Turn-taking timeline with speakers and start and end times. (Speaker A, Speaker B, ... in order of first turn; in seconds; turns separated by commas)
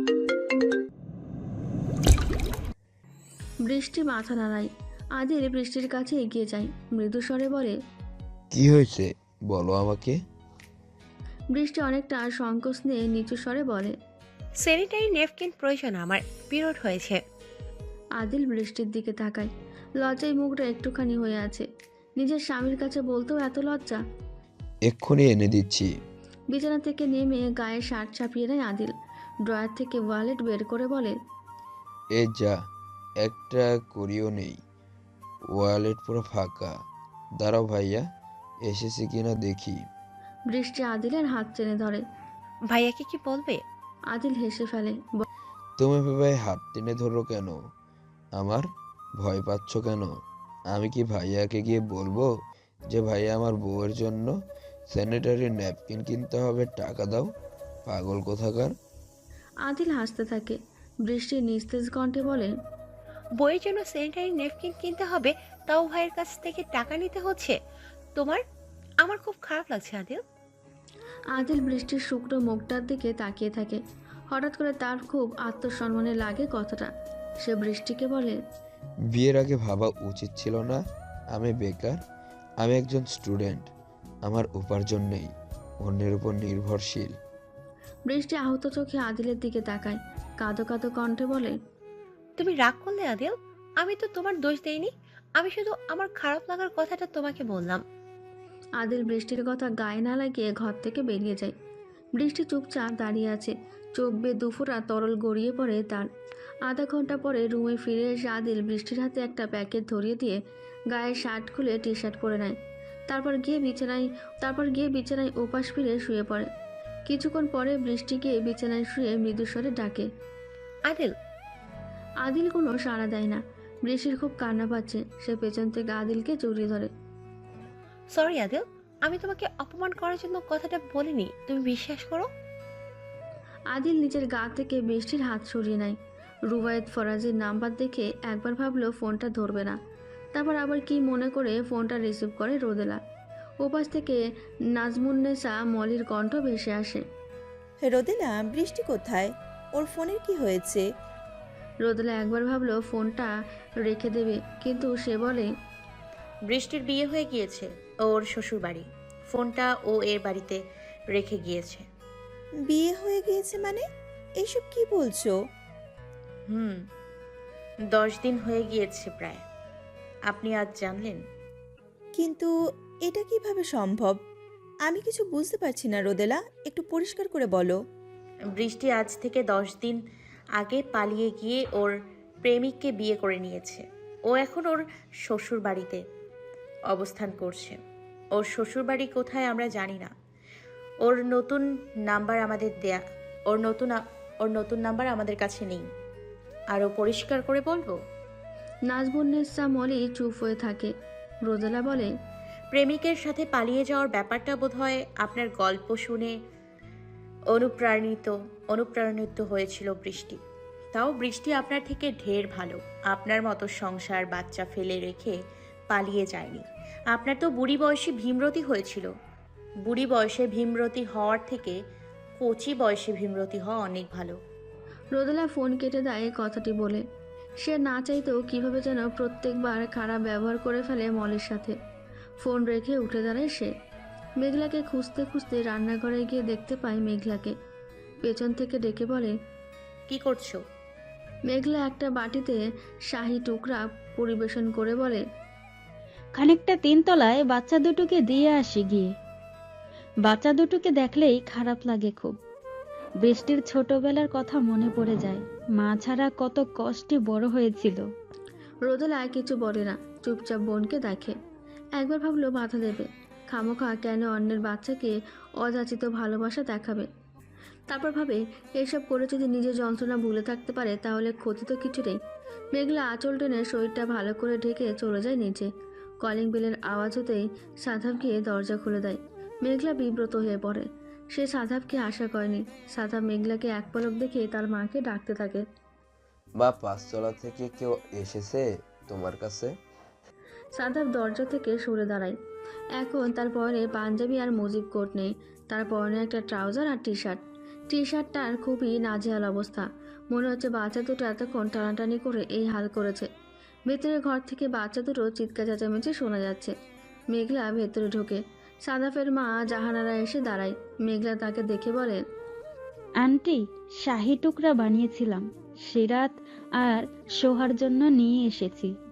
Speaker A: 3.6-7.7, Speaker B: 8.5-10.2, Speaker A: 11.5-13.9, Speaker C: 14.6-17.2, Speaker A: 18.2-19.5, Speaker A: 20.0-21.6, Speaker A: 22.2-24.0, Speaker B: 24.9-25.9, Speaker A: 26.5-28.9, Speaker A: 29.5-31.1, Speaker B: 32.1-32.6, Speaker B: 33.2-34.6, Speaker B: 35.5-36.7, Speaker B: 37.4-38.0, Speaker B: 38.6-39.8, Speaker A: 40.5-42.0, Speaker C: 42.7-43.6, Speaker A: 44.1-45.2, Speaker B: 45.8-47.5, Speaker B: 48.4-48.6, Speaker B: 49.2-50.1, Speaker B: 50.7-52.3, Speaker B: 52.9-54.3, Speaker B: 54.9-57.3, Speaker B: 57.9-58.7, Speaker A: 59.7-62.5, Speaker C: 63.4-67.6, Speaker C: 68.1-68.4, Speaker C: 69.0-70.2, Speaker A: 71.3-73.8, Speaker A: 74.3-76.9, Speaker A: 77.4-78.4, Speaker B: 79.1-80.8, Speaker B: 81.3-82.0, Speaker B: 82.6-83.7, Speaker B: 84.2-85.3, Speaker B: 85.8-87.1, Speaker A: 88.1-91.6, Speaker C: 92.4-97.8, Speaker A: 98.8-101.5, Speaker A: 102.2-106.1, Speaker A: 106.7-110.3, Speaker A: 110.9-112.5, Speaker A: 113.1-116.5, Speaker A: 117.1-120.0, Speaker C: 120.8-121.1, Speaker A: 122.2-126.9, Speaker C: 128.1-132.3, Speaker A: 133.7-136.0, Speaker A: 136.5-139.8, Speaker A: 140.3-143.0, Speaker A: 143.6-144.2, Speaker A: 144.8-147.0, Speaker D: 147.8-150.8, Speaker A: 151.8-153.3, Speaker A: 153.8-155.5, Speaker E: 156.5-160.6, Speaker E: 161.1-161.8, Speaker D: 162.7-163.8, Speaker D: 164.4-165.3, Speaker E: 166.5-166.7, Speaker E: 167.9-169.4, Speaker E: 170.3-171.2, Speaker D: 172.1-172.5, Speaker D: 173.1-174.2, Speaker D: 174.8-177.7, Speaker E: 178.6-180.0, Speaker E: 180.6-181.9, Speaker E: 182.4-186.0, Speaker E: 186.9-187.8, Speaker E: 188.4-190.1, Speaker E: 191.0-193.0, Speaker E: 193.5-195.8, Speaker E: 196.7-197.9, Speaker A: 198.9-200.9, Speaker A: 201.5-202.1, Speaker E: 202.7-206.3, Speaker E: 207.5-210.4, Speaker E: 210.9-215.3, Speaker E: 215.9-219.1, Speaker E: 219.9-221.8, Speaker E: 222.4-224.3, Speaker A: 225.1-227.0, Speaker A: 227.6-231.7, Speaker A: 232.4-233.7, Speaker A: 234.4-237.5, Speaker A: 238.2-239.3, Speaker E: 240.1-240.6, Speaker A: 241.5-242.6, Speaker A: 243.1-245.2, Speaker F: 246.4-249.1, Speaker F: 250.3-252.3, Speaker F: 253.2-258.0, Speaker A: 258.9-261.3, Speaker A: 262.0-267.1, Speaker A: 267.9-272.2, Speaker A: 272.7-275.7, Speaker A: 276.2-285.6, Speaker B: 286.6-289.7, Speaker A: 290.8-292.3, Speaker A: 293.0-297.4, Speaker A: 297.9-303.3, Speaker A: 303.9-306.7, Speaker A: 307.3-312.2, Speaker F: 313.2-318.9